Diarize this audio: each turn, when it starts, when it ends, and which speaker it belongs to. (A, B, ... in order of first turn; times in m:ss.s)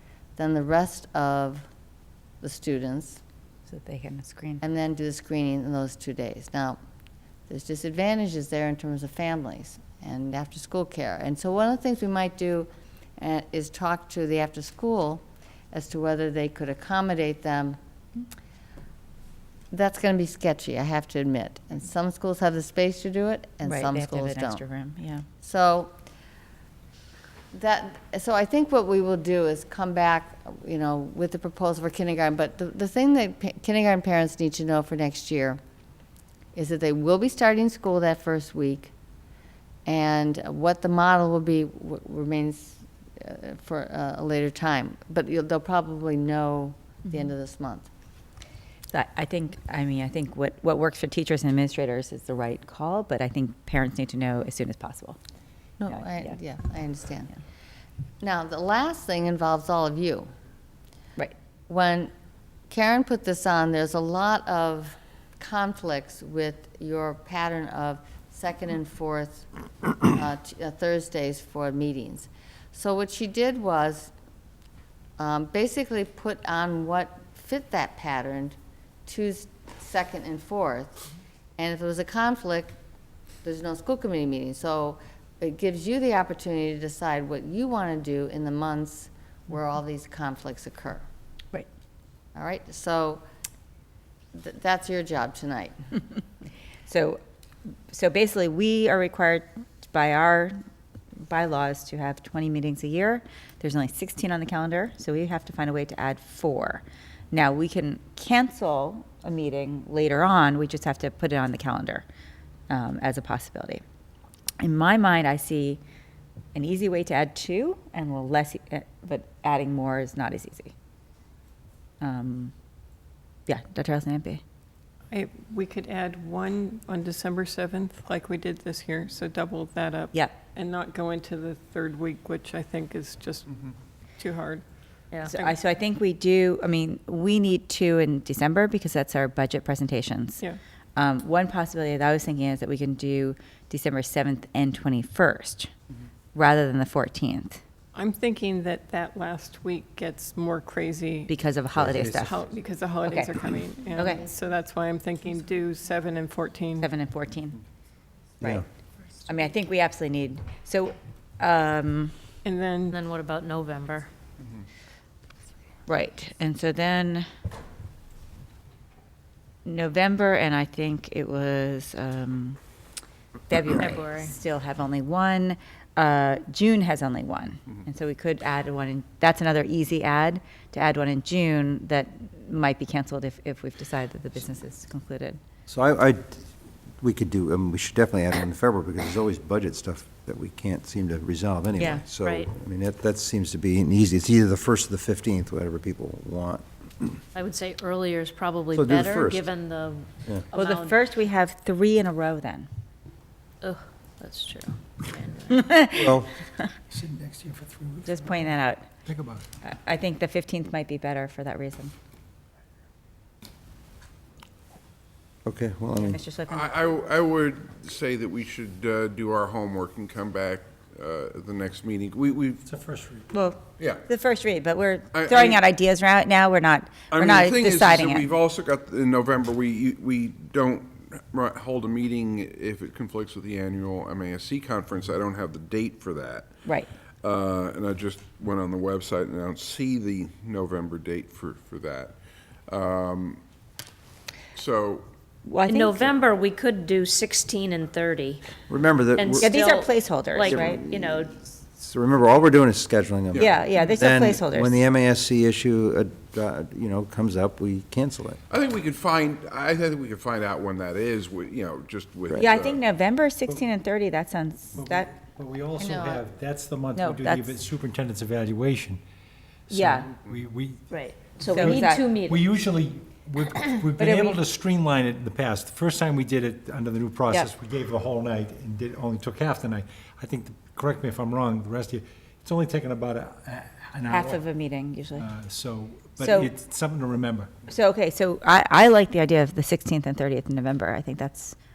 0:00.4-0:01.7 A
0:02.4-0:03.2 A
0:03.7-0:04.6 B
0:04.6-0:06.8 A
0:07.5-0:17.8 A
0:19.7-0:24.6 A
0:23.6-0:25.2 B
0:25.4-0:25.9 A
0:27.5-0:35.6 A
0:36.5-0:38.9 A
0:39.8-0:47.9 A
0:48.9-0:55.2 B
0:55.8-0:57.3 A
0:55.9-0:56.3 B
0:58.2-1:00.3 A
1:01.7-1:02.1 A
1:02.7-1:09.5 A
1:10.0-1:14.1 A
1:15.2-1:21.0 A
1:21.6-1:22.7 A
1:23.4-1:31.0 A
1:32.3-1:33.2 A
1:34.3-1:35.8 A
1:36.9-1:37.2 B
1:37.9-1:40.6 B
1:41.3-1:52.0 B
1:52.7-1:53.8 B
1:54.6-1:55.8 B
1:56.5-2:00.7 B
2:02.0-2:02.5 B
2:03.5-2:04.4 B
2:05.1-2:14.6 C
2:15.1-2:15.4 D
2:15.2-2:15.5 C
2:15.3-2:20.4 B
2:21.0-2:25.7 B
2:26.3-2:27.6 B
2:27.9-2:31.4 C
2:31.3-2:32.4 B
2:31.9-2:36.9 C
2:33.0-2:33.3 B
2:34.0-2:34.3 B
2:36.8-2:37.6 B
2:39.3-2:42.1 B
2:42.4-2:43.0 C
2:42.9-2:44.1 D
2:45.9-2:47.2 B
2:49.6-2:52.6 B
2:53.5-3:05.4 B
2:53.8-2:54.3 D
3:05.7-3:06.5 E
3:07.0-3:17.2 E
3:11.8-3:12.0 B
3:12.2-3:12.5 D
3:17.3-3:21.0 D
3:18.7-3:19.5 E
3:20.5-3:22.7 B
3:23.6-3:25.8 D
3:25.5-3:26.1 B
3:25.9-3:26.3 E
3:26.9-3:29.4 F
3:28.0-3:28.8 B
3:29.6-3:31.9 B
3:35.4-3:36.2 E
3:36.0-3:36.7 B
3:36.5-3:42.6 G
3:42.6-3:43.3 F
3:43.3-3:48.3 B
3:45.1-3:45.6 G
3:47.1-3:56.5 G
3:57.2-4:02.2 G
4:02.7-4:03.4 G
4:04.5-4:05.1 G
4:05.4-4:06.0 B
4:05.6-4:08.5 D
4:08.7-4:18.4 E
4:09.2-4:11.4 D
4:09.4-4:10.6 B
4:13.3-4:13.6 G
4:13.4-4:14.8 B
4:18.5-4:22.8 G
4:22.4-4:25.1 B
4:24.7-4:29.0 F
4:25.8-4:26.2 A
4:26.9-4:27.5 B
4:29.7-4:44.4 F
4:29.7-4:30.1 B
4:30.9-4:32.4 D
4:31.5-4:32.0 B
4:34.0-4:34.4 B
4:44.1-4:45.3 B
4:45.1-4:47.6 F
4:46.2-4:46.5 B
4:47.7-4:51.5 B